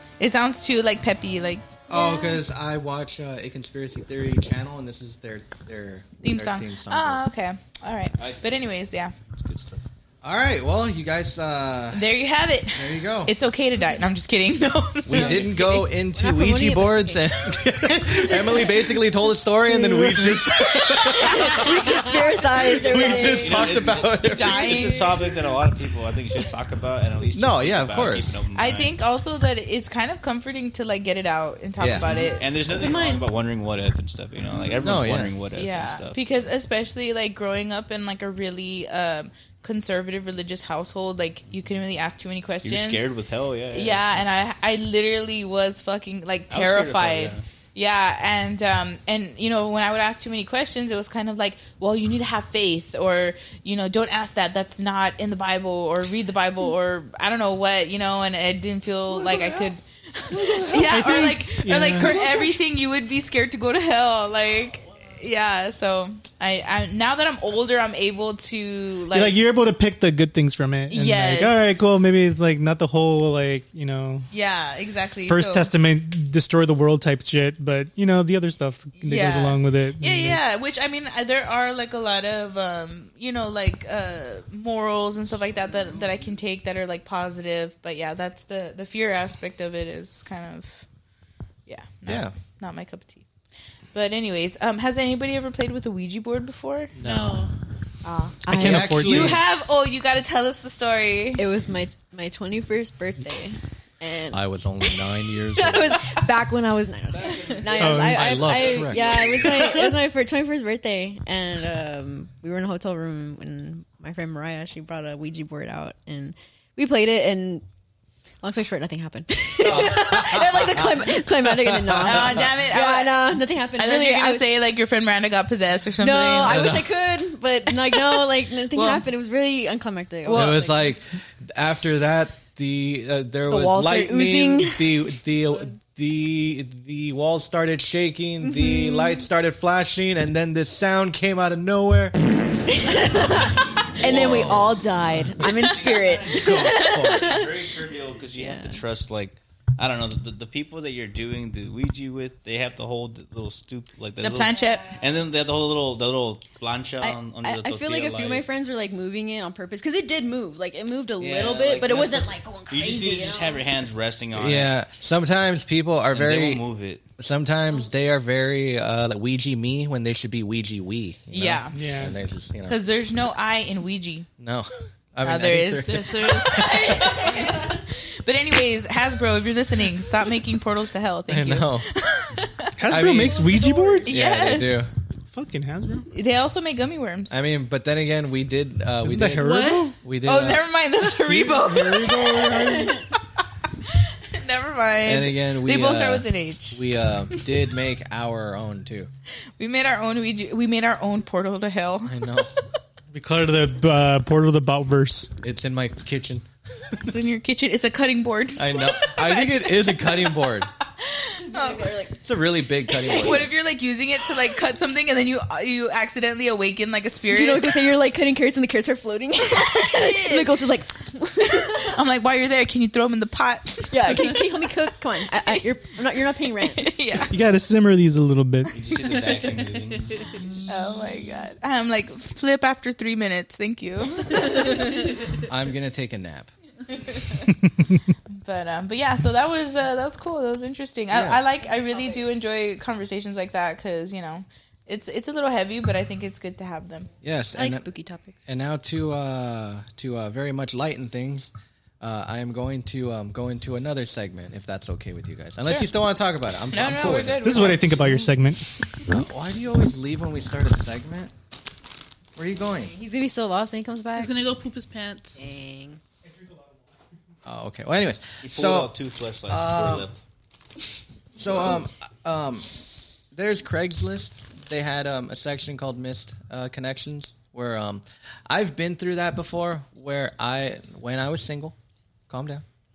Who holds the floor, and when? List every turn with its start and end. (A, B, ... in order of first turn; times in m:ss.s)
0:00.2-0:02.4 A
0:01.9-0:07.2 B
0:06.2-0:09.1 A
0:08.2-0:08.5 C
0:09.3-0:09.8 C
0:10.2-0:12.1 B
0:11.9-0:15.7 A
0:12.7-0:13.3 B
0:15.0-0:25.2 B
0:15.1-0:17.3 D
0:19.7-0:23.7 D
0:21.4-0:22.2 A
0:22.9-0:28.9 C
0:24.2-0:25.1 A
0:27.3-0:28.4 B
0:28.5-0:32.4 A
0:31.8-0:32.1 B
0:32.4-0:36.2 C
0:32.7-0:33.2 D
0:34.8-0:35.3 B
0:35.6-0:43.1 A
0:42.6-0:44.0 C
0:43.7-1:09.4 A
0:46.5-0:47.4 C
1:00.8-1:02.3 E
1:09.1-1:14.3 E
1:10.9-1:11.8 A
1:14.3-1:15.7 A
1:15.2-1:20.4 E
1:19.0-1:30.9 A
1:31.6-1:33.2 A
1:32.0-1:32.3 B
1:33.9-1:37.0 A
1:36.9-1:37.5 B
1:37.0-1:37.5 F
1:38.0-1:39.0 D
1:38.4-1:39.4 E
1:38.5-1:39.4 B
1:39.0-1:41.5 A
1:41.4-1:44.4 D
1:44.3-1:46.0 B
1:45.5-1:57.6 D
1:47.1-1:49.9 C
1:47.8-1:48.2 E
1:47.9-1:49.6 B
1:58.4-2:04.4 D
1:59.6-2:02.5 B
2:02.0-2:06.7 A
2:06.0-2:10.6 D
2:06.4-2:06.9 B
2:07.8-2:09.0 A
2:10.2-2:10.8 A
2:10.3-2:22.1 B
2:13.5-2:15.2 D
2:18.4-2:19.2 D
2:22.7-2:27.4 D
2:24.0-2:24.8 B
2:24.0-2:24.6 C
2:25.6-2:26.0 A
2:25.7-2:38.4 C
2:26.2-2:27.4 B
2:28.4-2:28.8 D
2:34.2-2:35.0 A
2:37.0-2:43.7 D
2:41.2-2:44.7 C
2:44.3-2:46.6 B
2:46.1-2:47.0 C
2:47.2-2:52.8 B
2:51.3-2:51.8 A
2:51.7-2:52.1 E
2:52.7-2:54.3 A
2:54.4-2:57.4 B
2:55.2-3:04.8 A
2:55.8-2:56.7 F
3:01.3-3:01.9 B
3:02.8-3:04.3 E
3:02.9-3:03.4 B
3:04.0-3:04.9 B
3:05.3-3:06.1 E
3:06.1-3:07.4 A
3:07.3-3:10.7 B
3:09.0-3:10.0 E
3:09.4-3:09.9 F
3:10.2-3:13.1 A
3:11.3-3:12.9 B
3:11.3-3:12.9 E
3:13.8-3:16.8 A
3:15.0-3:19.1 B
3:19.6-3:22.4 A
3:22.0-3:22.5 B
3:23.1-3:25.3 E
3:25.4-3:26.4 B
3:26.9-3:30.2 A
3:28.6-3:30.7 B
3:31.0-3:32.0 A
3:31.4-3:32.2 D
3:32.2-3:33.5 B
3:33.0-3:37.9 A
3:37.3-3:41.8 D
3:39.5-3:40.6 A
3:41.6-3:44.7 A
3:43.9-3:46.9 D
3:45.3-3:45.6 A
3:46.3-3:47.4 A
3:47.3-3:48.7 E
3:48.7-3:50.2 C
3:49.1-3:50.5 F
3:50.6-3:55.2 A
3:54.4-3:54.8 F
3:55.4-3:56.5 B
3:56.9-3:57.5 A
3:58.4-4:07.1 A
4:01.1-4:01.4 B
4:07.2-4:07.8 B
4:07.5-4:08.4 D
4:08.4-4:17.6 B
4:16.7-4:18.4 A
4:17.4-4:18.7 E
4:19.1-4:21.3 B
4:22.3-4:22.9 B
4:22.9-4:24.4 D
4:24.1-4:25.4 F
4:25.4-4:26.0 D
4:27.4-4:28.9 B
4:28.4-4:30.2 C
4:29.5-4:30.1 B
4:31.4-4:32.7 B
4:33.3-4:41.7 B
4:42.3-4:42.6 B